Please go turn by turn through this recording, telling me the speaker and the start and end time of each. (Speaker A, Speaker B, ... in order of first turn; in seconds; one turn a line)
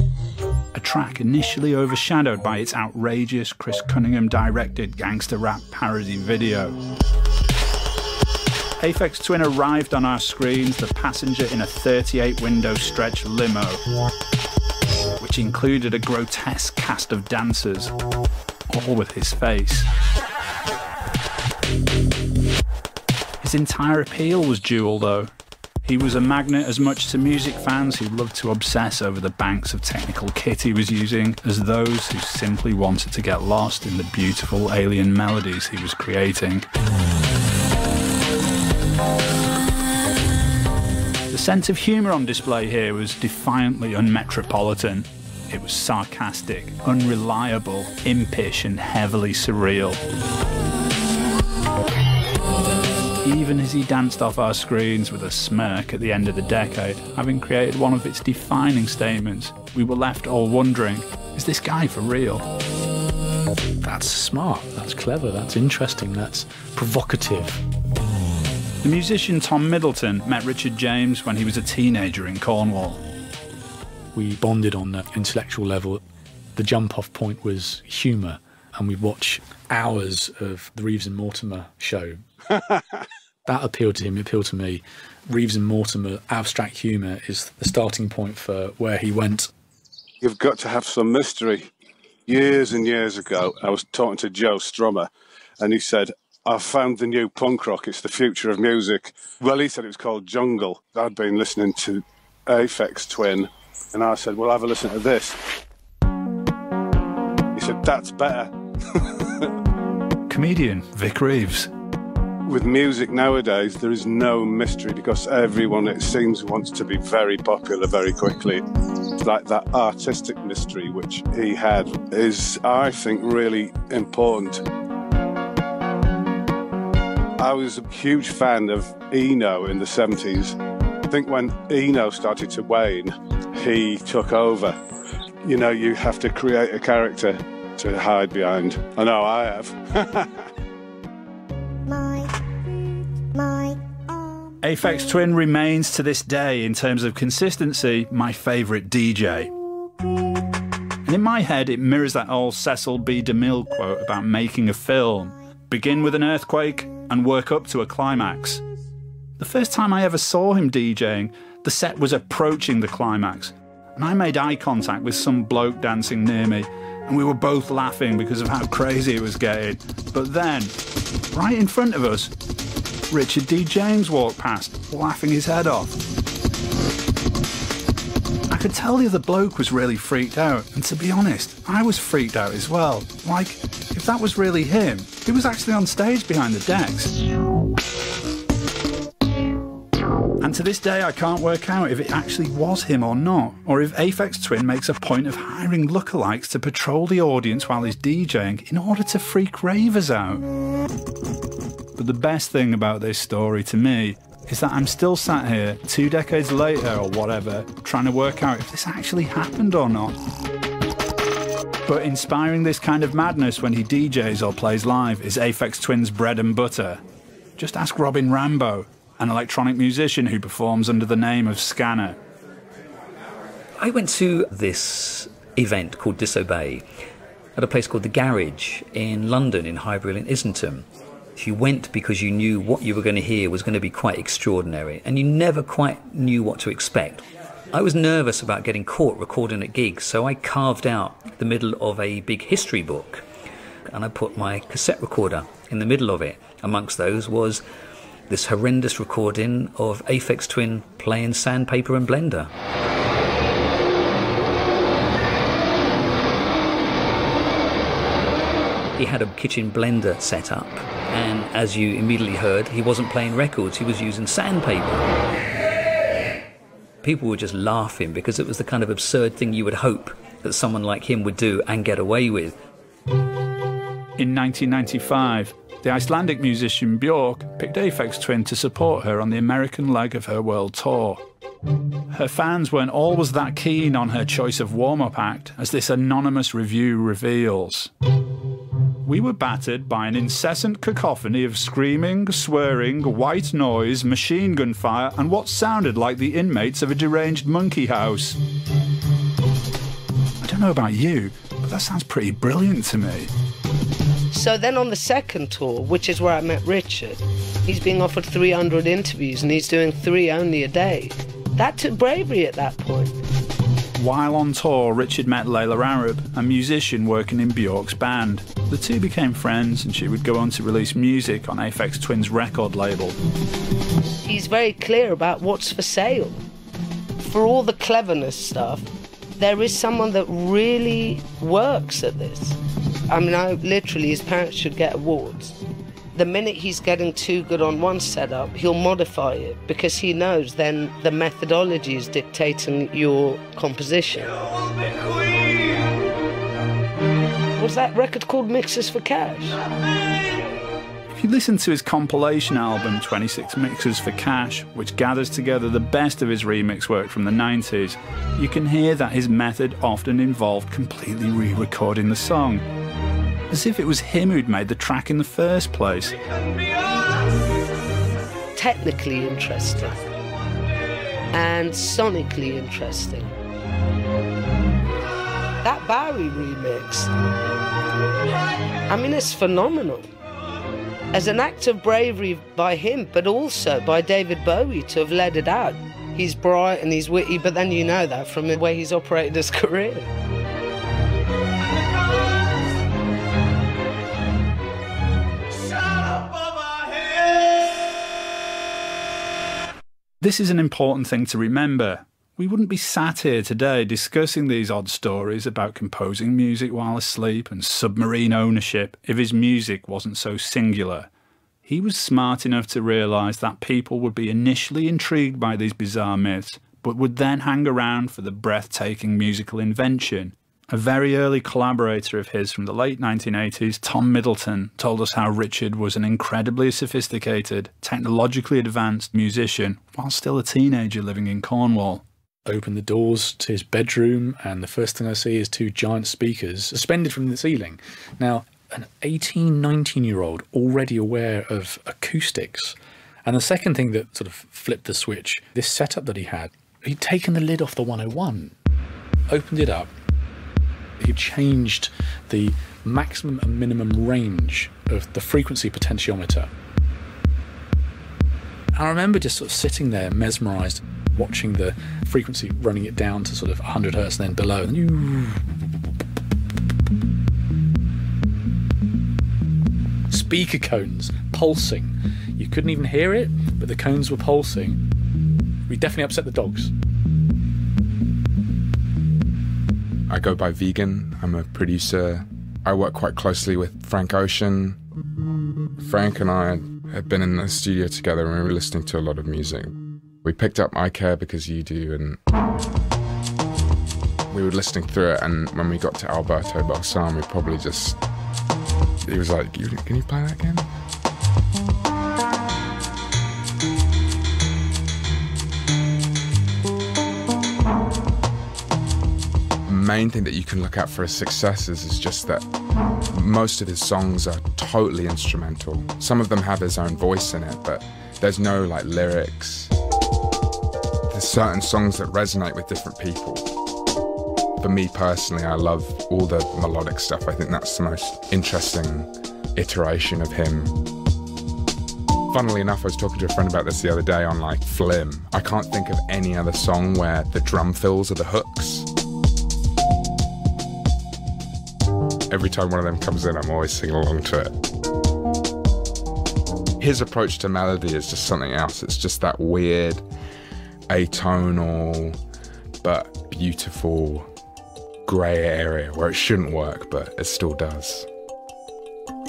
Speaker A: 0.7-6.8
Speaker A: 8.8-13.8
Speaker A: 15.2-17.9
Speaker A: 18.7-19.9
Speaker A: 23.4-25.3
Speaker A: 25.8-36.6
Speaker A: 41.3-50.0
Speaker A: 53.2-62.4
Speaker B: 63.8-67.6
Speaker A: 68.8-73.0
Speaker B: 74.1-76.0
Speaker B: 76.5-82.2
Speaker C: 82.6-83.0
Speaker B: 83.5-89.5
Speaker C: 90.2-91.7
Speaker C: 92.3-105.4
Speaker C: 107.5-109.5
Speaker A: 110.3-111.7
Speaker C: 112.5-118.6
Speaker C: 119.2-124.6
Speaker C: 127.4-130.6
Speaker C: 131.1-134.8
Speaker C: 135.4-140.4
Speaker A: 144.6-149.5
Speaker A: 151.1-158.6
Speaker A: 159.4-170.8
Speaker A: 171.3-172.3
Speaker A: 173.1-176.0
Speaker A: 178.5-187.1
Speaker A: 190.4-200.4
Speaker A: 202.0-210.1
Speaker A: 211.8-217.0
Speaker A: 217.6-222.2
Speaker D: 223.8-226.8
Speaker D: 227.5-243.2
Speaker D: 243.9-247.6
Speaker D: 248.3-252.5
Speaker D: 258.9-265.1
Speaker D: 267.0-272.6
Speaker A: 274.2-281.2
Speaker A: 282.1-287.9
Speaker A: 289.0-298.4
Speaker A: 300.4-303.3
Speaker E: 304.3-313.2
Speaker A: 314.0-323.2
Speaker E: 324.2-326.4
Speaker E: 327.2-332.6
Speaker E: 333.1-344.4
Speaker E: 347.5-349.6
Speaker A: 351.1-362.6
Speaker A: 363.5-366.2
Speaker E: 368.5-370.0
Speaker E: 371.3-373.3
Speaker E: 375.6-377.1
Speaker E: 378.9-380.1
Speaker E: 381.1-390.1
Speaker A: 400.2-411.1
Speaker A: 411.6-432.0
Speaker B: 432.4-448.5
Speaker B: 449.3-449.9
Speaker B: 451.0-456.5
Speaker B: 458.7-465.4
Speaker B: 470.1-474.8
Speaker B: 475.7-476.7
Speaker F: 480.1-484.8
Speaker F: 485.8-492.2
Speaker F: 494.3-498.0
Speaker F: 499.0-500.7
Speaker F: 509.6-512.4
Speaker F: 513.1-519.7
Speaker F: 521.1-523.4
Speaker F: 524.6-530.7
Speaker F: 532.3-538.9
Speaker F: 542.3-544.5
Speaker F: 546.8-550.0
Speaker F: 550.9-552.2
Speaker F: 552.8-554.3
Speaker F: 555.0-558.1